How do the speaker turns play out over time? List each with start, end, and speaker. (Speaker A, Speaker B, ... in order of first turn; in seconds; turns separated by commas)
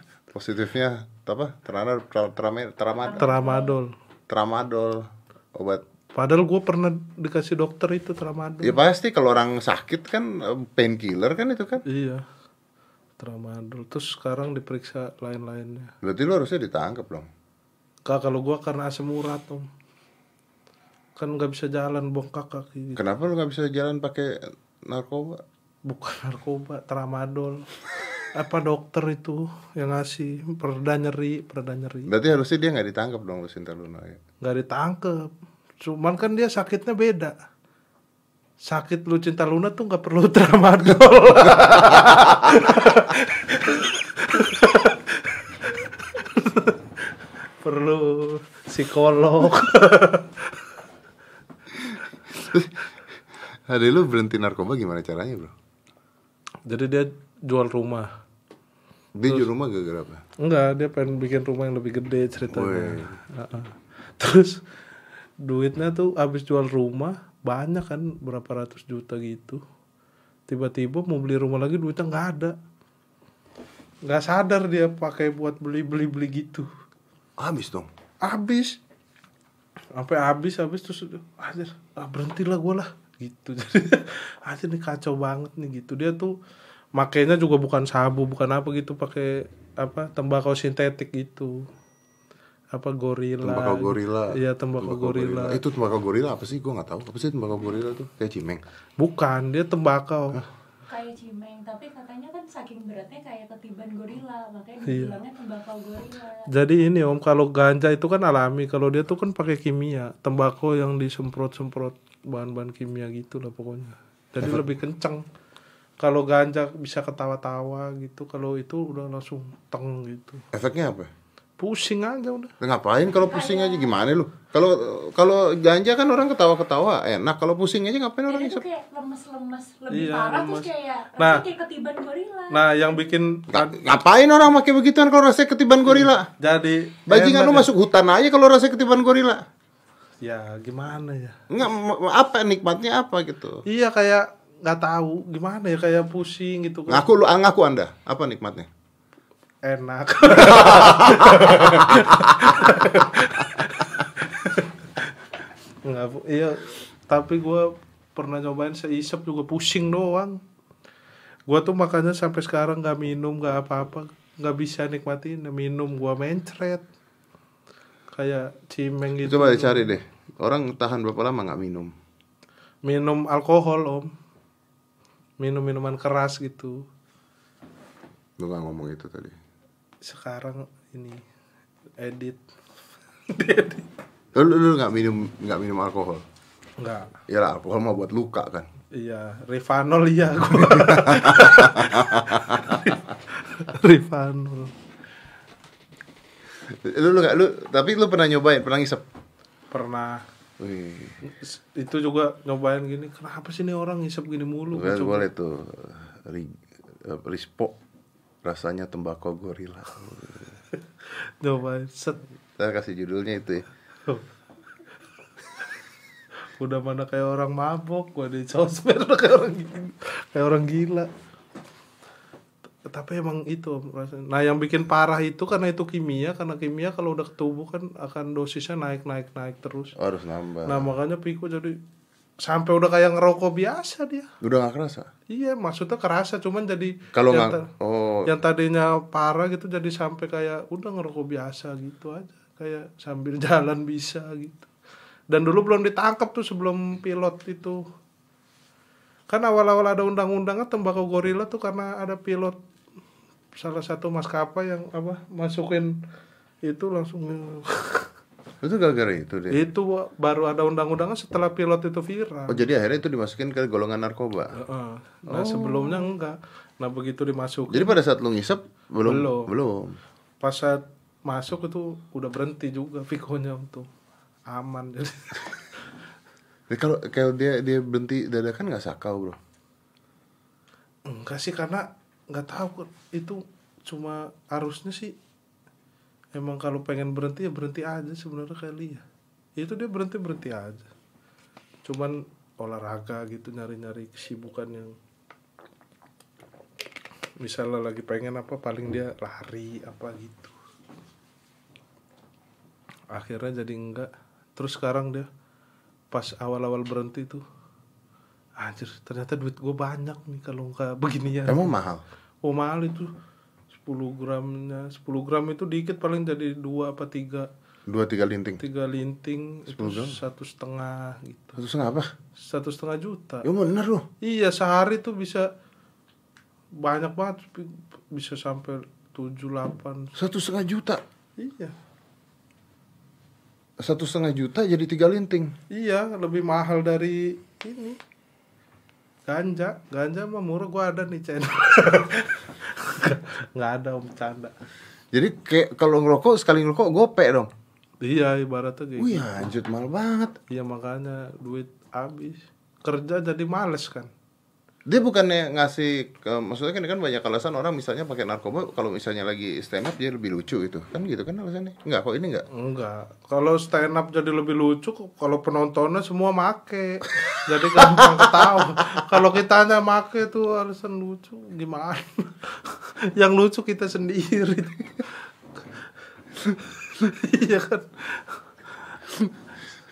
Speaker A: 0.3-3.3, Speaker B: 3.0-3.8, Speaker C: 3.1-3.9, Speaker A: 4.3-5.8, Speaker C: 6.1-8.8, Speaker A: 8.6-11.8, Speaker C: 11.8-12.2, Speaker C: 13.2-15.9, Speaker A: 16.0-17.3, Speaker C: 18.1-19.7, Speaker C: 21.2-23.0, Speaker A: 22.9-25.4, Speaker C: 25.8-27.7, Speaker C: 28.3-32.1, Speaker A: 32.1-34.2, Speaker C: 34.4-37.4, Speaker C: 38.6-50.7, Speaker A: 51.8-52.9, Speaker A: 53.7-55.5, Speaker C: 56.6-58.1, Speaker A: 59.1-60.2, Speaker C: 60.4-64.7, Speaker A: 62.5-63.2, Speaker C: 65.4-69.6, Speaker C: 70.5-72.5, Speaker C: 74.0-76.7, Speaker A: 77.4-77.9, Speaker C: 78.2-78.8, Speaker C: 80.0-86.3, Speaker C: 87.0-91.7, Speaker C: 92.7-95.6, Speaker A: 93.4-98.6, Speaker C: 99.0-100.4, Speaker B: 100.9-106.5, Speaker C: 104.8-105.2, Speaker C: 106.5-115.2, Speaker C: 116.0-120.4, Speaker A: 120.5-121.1, Speaker C: 121.6-122.5, Speaker A: 122.6-128.6, Speaker B: 123.3-123.9, Speaker B: 128.3-132.8, Speaker C: 129.9-131.4, Speaker C: 132.5-133.8, Speaker A: 133.5-136.3, Speaker C: 136.4-137.7, Speaker A: 137.1-139.4, Speaker C: 140.2-141.4, Speaker A: 141.5-143.6, Speaker C: 143.7-147.0, Speaker A: 146.9-148.7, Speaker C: 149.6-155.2, Speaker A: 150.4-153.3, Speaker C: 155.8-160.4, Speaker C: 161.5-166.8, Speaker C: 168.1-169.9, Speaker A: 169.2-171.9, Speaker C: 172.8-174.1, Speaker C: 175.4-176.8, Speaker A: 178.4-179.4, Speaker C: 180.0-181.2, Speaker C: 182.0-182.4, Speaker C: 183.3-183.9, Speaker A: 184.3-186.2, Speaker C: 186.8-187.1, Speaker A: 187.3-188.7, Speaker C: 188.9-194.7, Speaker A: 190.6-192.9, Speaker A: 196.6-199.0, Speaker C: 199.7-200.2, Speaker A: 200.6-201.2, Speaker C: 201.2-205.3, Speaker A: 204.7-207.8, Speaker A: 208.4-210.6, Speaker C: 211.1-212.3, Speaker A: 212.6-213.7, Speaker C: 216.5-221.1, Speaker C: 222.8-229.9, Speaker A: 230.0-230.9, Speaker C: 230.7-231.8, Speaker C: 232.4-234.3, Speaker A: 234.4-235.1, Speaker C: 235.3-237.7, Speaker A: 237.1-238.3, Speaker C: 238.3-244.7, Speaker C: 245.3-247.8, Speaker C: 249.3-252.6, Speaker C: 253.6-256.0, Speaker C: 256.6-258.1, Speaker A: 258.6-259.6, Speaker C: 259.5-262.6, Speaker A: 262.5-264.6, Speaker C: 264.5-267.9, Speaker A: 265.3-266.1, Speaker A: 267.7-270.0, Speaker C: 269.0-269.5, Speaker C: 270.4-273.9, Speaker C: 274.5-275.5, Speaker A: 276.7-279.4, Speaker C: 281.1-285.1, Speaker C: 286.3-289.0, Speaker C: 289.6-290.9, Speaker C: 291.9-294.9, Speaker C: 297.4-300.5, Speaker C: 303.1-305.3, Speaker C: 306.1-307.4, Speaker C: 308.6-311.7, Speaker A: 311.4-312.0, Speaker C: 312.4-313.1, Speaker C: 313.8-317.5, Speaker A: 317.9-318.6, Speaker C: 318.6-321.6, Speaker A: 319.7-320.2, Speaker A: 321.6-322.1, Speaker C: 322.4-323.5, Speaker A: 323.4-324.1, Speaker C: 324.2-325.5, Speaker C: 326.8-330.1, Speaker A: 330.1-331.0, Speaker C: 331.4-331.7, Speaker A: 333.8-335.5, Speaker C: 335.7-338.0, Speaker C: 339.3-344.5, Speaker A: 345.1-347.5, Speaker C: 348.0-349.2, Speaker A: 349.0-350.4, Speaker C: 350.5-354.1, Speaker A: 354.9-362.4, Speaker C: 362.5-375.2, Speaker A: 367.8-368.6, Speaker C: 376.4-379.3